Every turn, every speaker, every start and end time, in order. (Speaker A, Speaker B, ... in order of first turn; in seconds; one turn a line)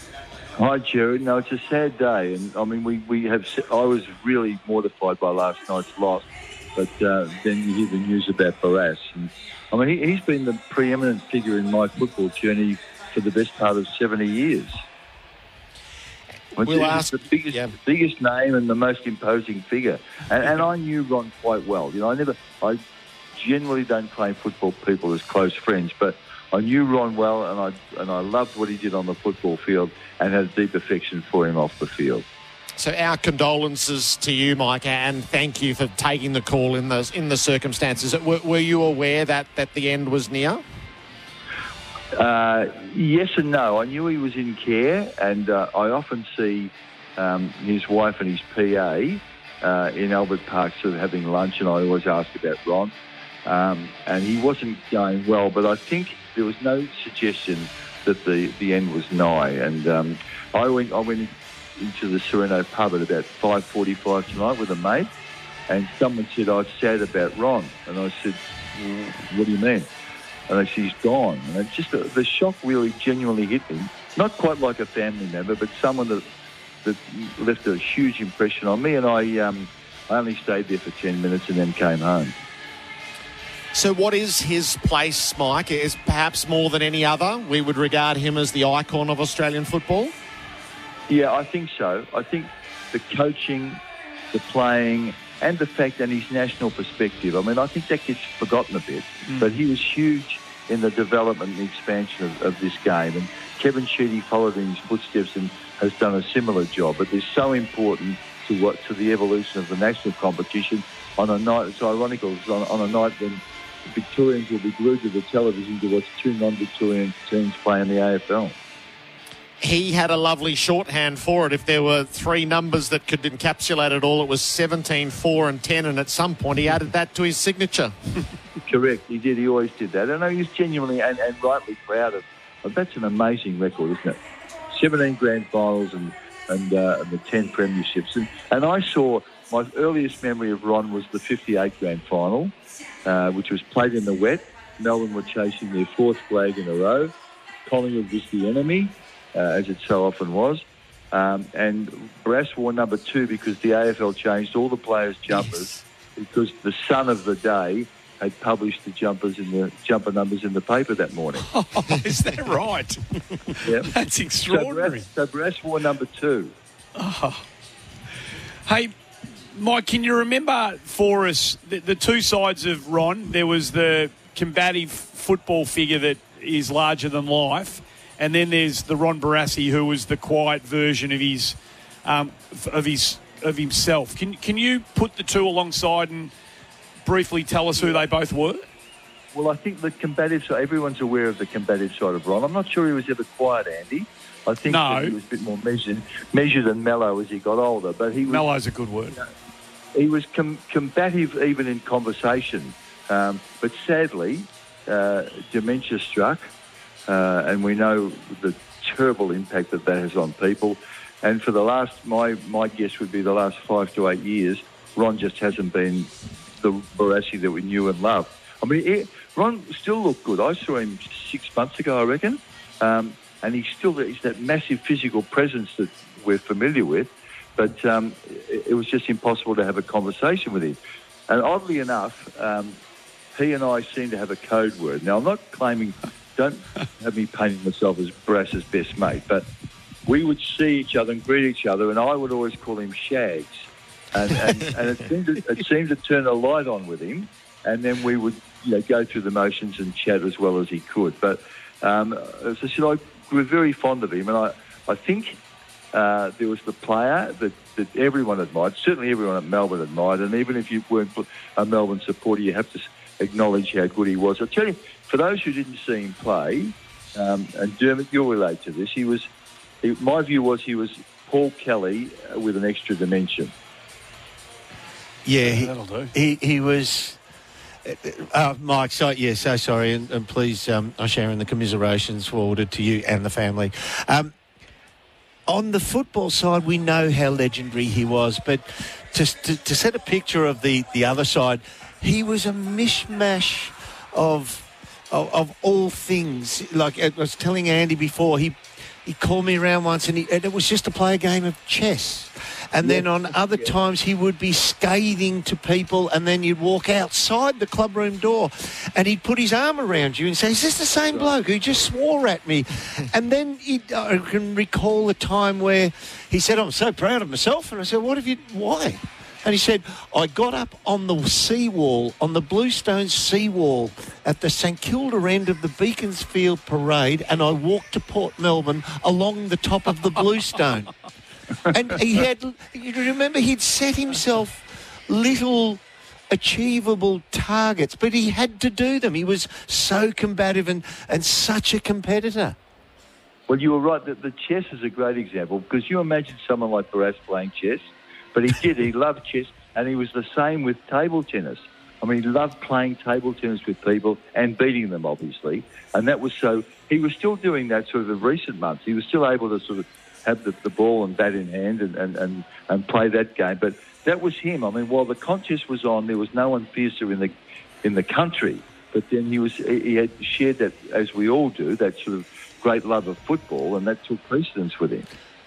Speaker A: 0.6-14.8
Speaker A: 16.6-22.8
Speaker B: 16.6-17.7
Speaker A: 23.4-32.2
Speaker B: 32.8-40.6
Speaker A: 42.1-52.9
Speaker A: 53.5-65.1
Speaker A: 65.7-69.9
Speaker A: 70.5-76.2
Speaker A: 76.8-82.3
Speaker B: 83.7-90.1
Speaker A: 91.1-93.8
Speaker A: 94.3-118.6
Speaker C: 99.3-99.5
Speaker B: 119.6-127.9
Speaker A: 128.7-134.2
Speaker A: 134.7-142.5
Speaker A: 143.1-147.1
Speaker A: 147.7-161.4
Speaker C: 161.3-165.1
Speaker A: 163.6-163.9
Speaker A: 164.5-166.5
Speaker C: 167.0-167.4
Speaker C: 168.7-168.9
Speaker C: 169.5-186.3
Speaker C: 187.1-188.7
Speaker A: 189.3-198.5
Speaker C: 194.6-195.2
Speaker C: 198.3-199.2
Speaker A: 199.9-206.4
Speaker A: 207.1-232.8
Speaker A: 233.3-239.4
Speaker A: 240.1-255.4
Speaker A: 255.9-269.3
Speaker A: 269.8-273.5
Speaker D: 275.2-277.2
Speaker C: 275.4-276.1
Speaker D: 277.9-284.3
Speaker D: 285.5-330.9
Speaker A: 302.8-303.8
Speaker A: 311.1-311.4
Speaker D: 331.7-342.6
Speaker A: 343.5-375.1